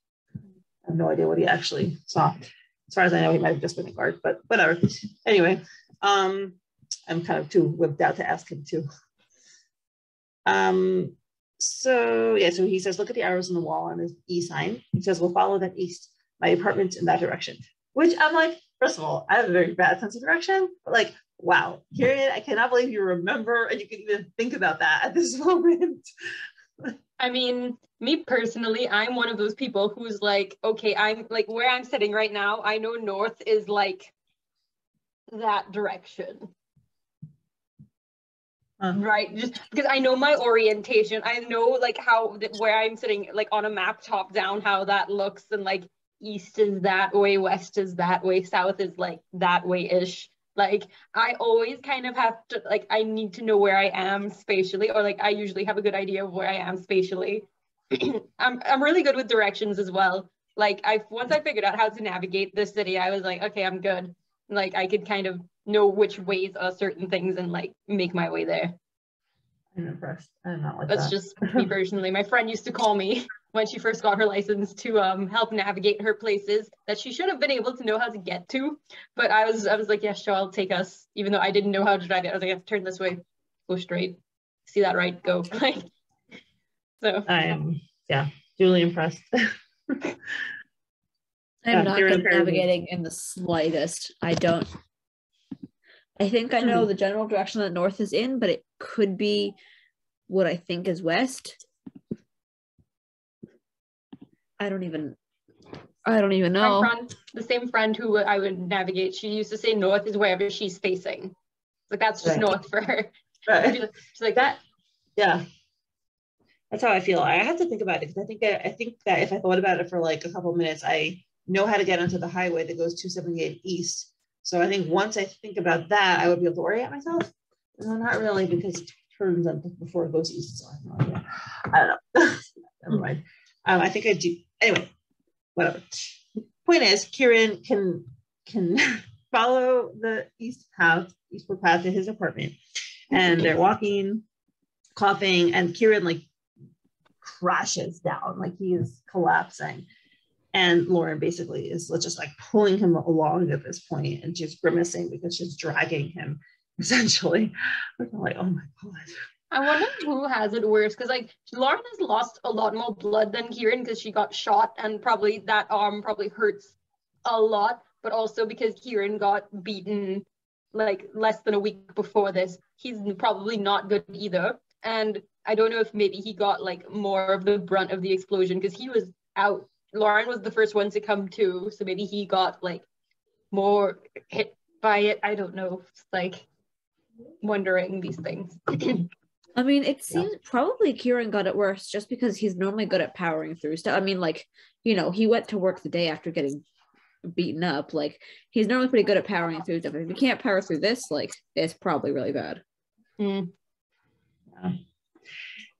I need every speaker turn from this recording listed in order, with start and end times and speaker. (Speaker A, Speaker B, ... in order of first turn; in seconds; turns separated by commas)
Speaker A: 0.9-8.9, Speaker A: 10.5-26.1, Speaker B: 27.2-34.1, Speaker B: 35.3-36.5, Speaker B: 39.0-68.8, Speaker A: 69.8-71.7, Speaker B: 70.9-85.9, Speaker B: 87.0-87.3, Speaker A: 87.3-90.0, Speaker C: 91.6-94.7, Speaker A: 91.7-92.7, Speaker C: 96.2-99.6, Speaker A: 96.6-96.9, Speaker C: 100.3-101.6, Speaker C: 104.6-105.2, Speaker C: 106.0-106.9, Speaker B: 106.6-111.3, Speaker B: 111.9-114.5, Speaker A: 112.2-112.5, Speaker A: 113.5-113.8, Speaker A: 115.2-115.4, Speaker A: 116.7-134.9, Speaker A: 135.6-142.6, Speaker A: 143.1-144.2, Speaker A: 145.0-146.2, Speaker A: 147.2-149.9, Speaker A: 150.5-159.8, Speaker B: 159.5-182.9, Speaker B: 183.5-186.4, Speaker B: 187.4-189.1, Speaker C: 189.6-196.6, Speaker C: 197.2-202.6, Speaker B: 203.2-203.5